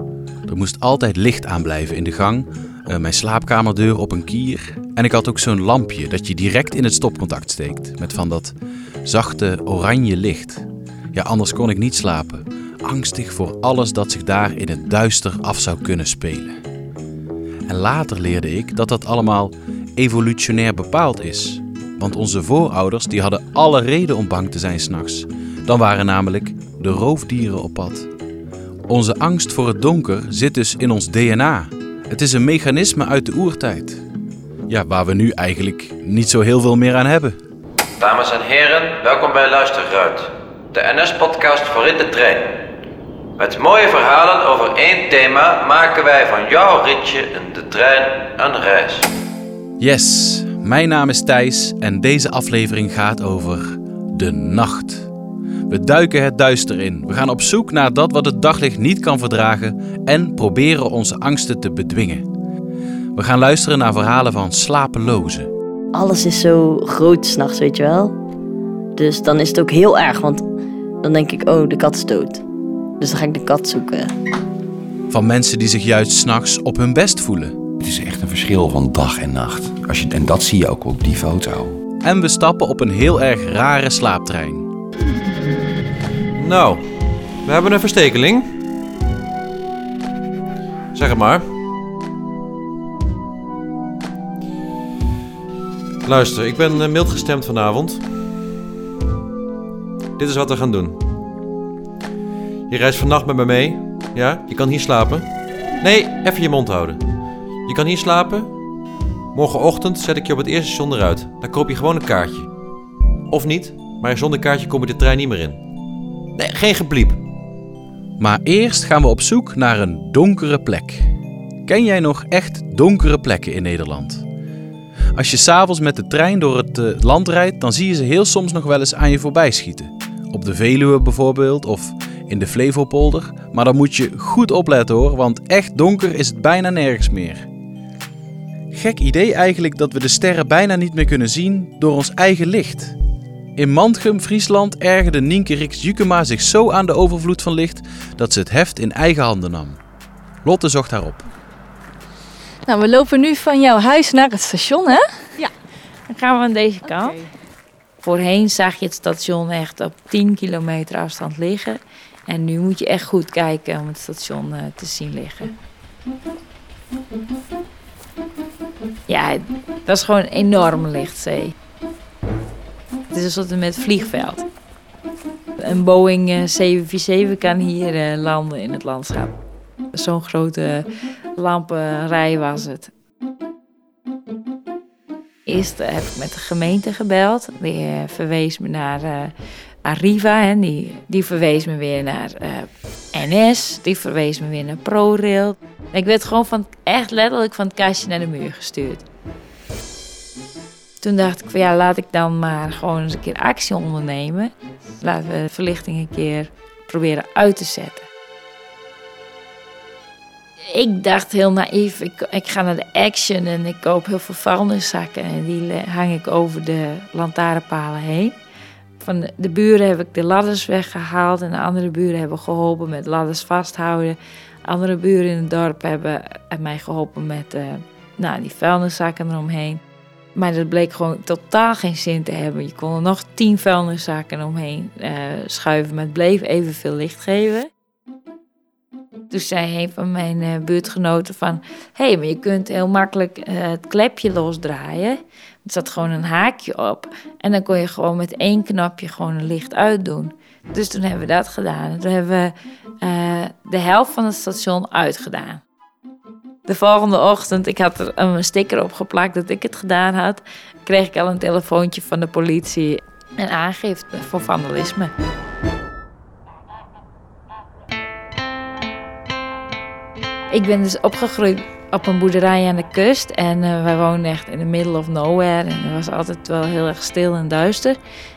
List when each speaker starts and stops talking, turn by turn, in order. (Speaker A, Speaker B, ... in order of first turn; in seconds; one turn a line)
Speaker A: 0.5-16.6
Speaker A: 17.7-28.1
Speaker A: 28.9-34.0
Speaker A: 34.7-37.4
Speaker B: 38.0-42.4
Speaker C: 41.0-42.4
Speaker B: 43.4-49.0
Speaker C: 43.4-43.9
Speaker C: 44.9-47.8
Speaker A: 49.8-55.1
Speaker A: 55.7-62.3
Speaker A: 63.1-65.5
Speaker D: 65.9-68.2
Speaker D: 69.0-70.4
Speaker D: 71.0-72.4
Speaker D: 73.0-74.1
Speaker A: 75.1-77.5
Speaker E: 77.8-81.8
Speaker A: 82.0-84.7
Speaker C: 86.4-86.8
Speaker C: 87.5-88.5
Speaker C: 90.9-91.4
Speaker C: 96.0-98.0
Speaker C: 100.2-101.0
Speaker C: 102.7-105.3
Speaker C: 105.8-107.0
Speaker C: 107.7-108.5
Speaker C: 109.3-112.5
Speaker C: 113.3-115.6
Speaker C: 116.4-117.2
Speaker A: 118.2-121.1
Speaker A: 121.7-124.2
Speaker A: 125.1-137.5
Speaker A: 138.7-142.9
Speaker A: 143.6-149.8
Speaker A: 150.4-151.2
Speaker F: 152.7-155.5
Speaker G: 156.1-157.2
Speaker G: 158.0-165.5
Speaker G: 169.1-171.5
Speaker G: 173.1-174.4
Speaker G: 175.6-179.3
Speaker G: 179.9-180.9
Speaker G: 181.4-182.9
Speaker G: 185.5-189.3
Speaker G: 189.8-199.0
Speaker G: 201.0-208.1
Speaker G: 210.7-218.4
Speaker G: 219.0-229.8
Speaker G: 230.3-237.7
Speaker G: 239.3-255.6
Speaker G: 256.7-265.1
Speaker G: 270.5-278.0